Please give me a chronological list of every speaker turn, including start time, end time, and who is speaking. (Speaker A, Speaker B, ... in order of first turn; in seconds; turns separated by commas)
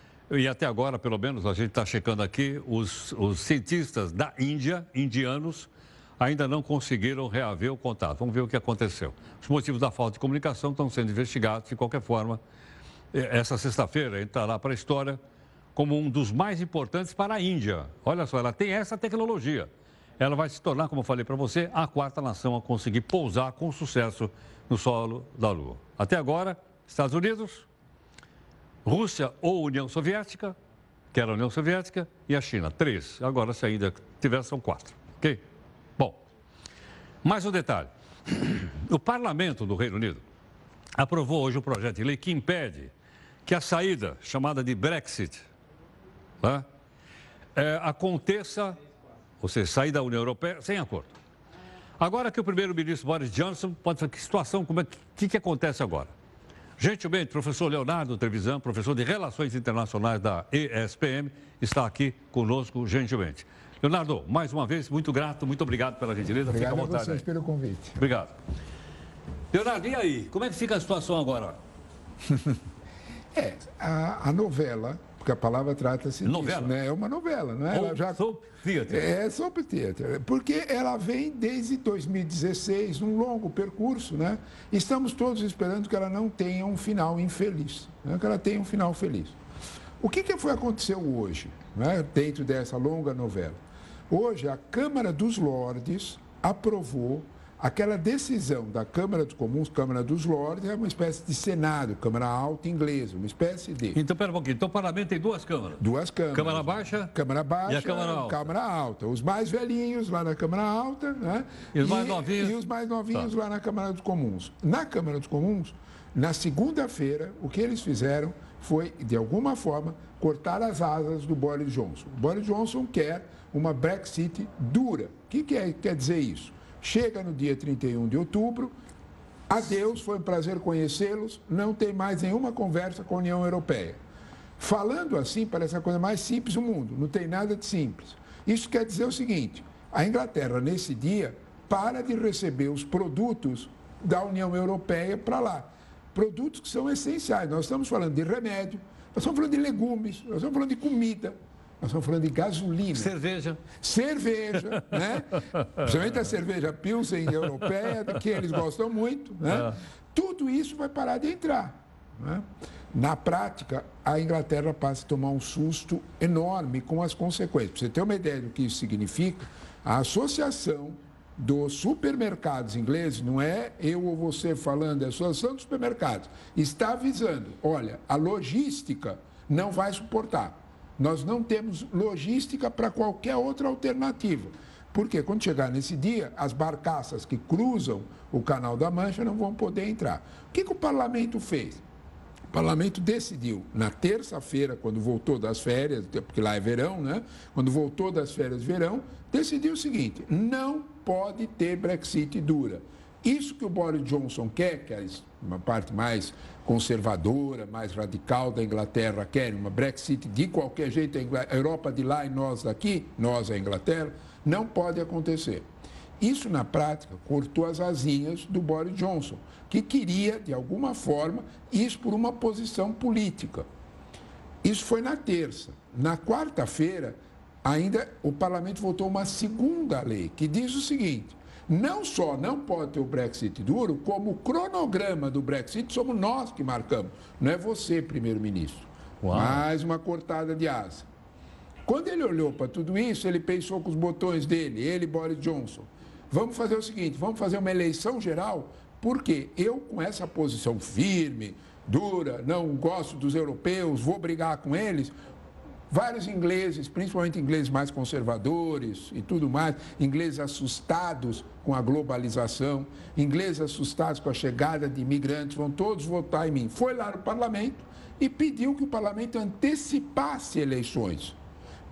Speaker A: 0.3-12.4, Speaker A: 13.1-15.2, Speaker A: 15.8-27.7, Speaker A: 28.9-30.6, Speaker A: 31.1-35.4, Speaker A: 36.0-36.2, Speaker A: 37.2-40.2, Speaker A: 41.0-42.9, Speaker A: 43.5-45.5, Speaker A: 46.4-46.7, Speaker A: 47.6-48.8, Speaker A: 49.4-51.2, Speaker A: 52.0-56.1, Speaker A: 56.8-67.2, Speaker B: 66.5-68.0, Speaker A: 68.0-68.3, Speaker A: 69.5-71.6, Speaker B: 73.3-78.2, Speaker A: 76.2-76.7, Speaker A: 77.7-79.1, Speaker B: 78.9-89.4, Speaker B: 90.0-93.6, Speaker B: 94.1-104.0, Speaker A: 103.9-107.1, Speaker B: 105.8-128.8, Speaker A: 107.7-108.5, Speaker A: 111.7-112.6, Speaker B: 129.5-134.0, Speaker B: 134.6-153.1, Speaker A: 152.9-153.6, Speaker B: 153.8-191.8, Speaker A: 159.5-159.8, Speaker B: 192.5-215.7, Speaker B: 216.2-223.7, Speaker B: 224.6-241.1, Speaker A: 239.2-239.7, Speaker B: 241.9-255.1, Speaker B: 255.9-271.4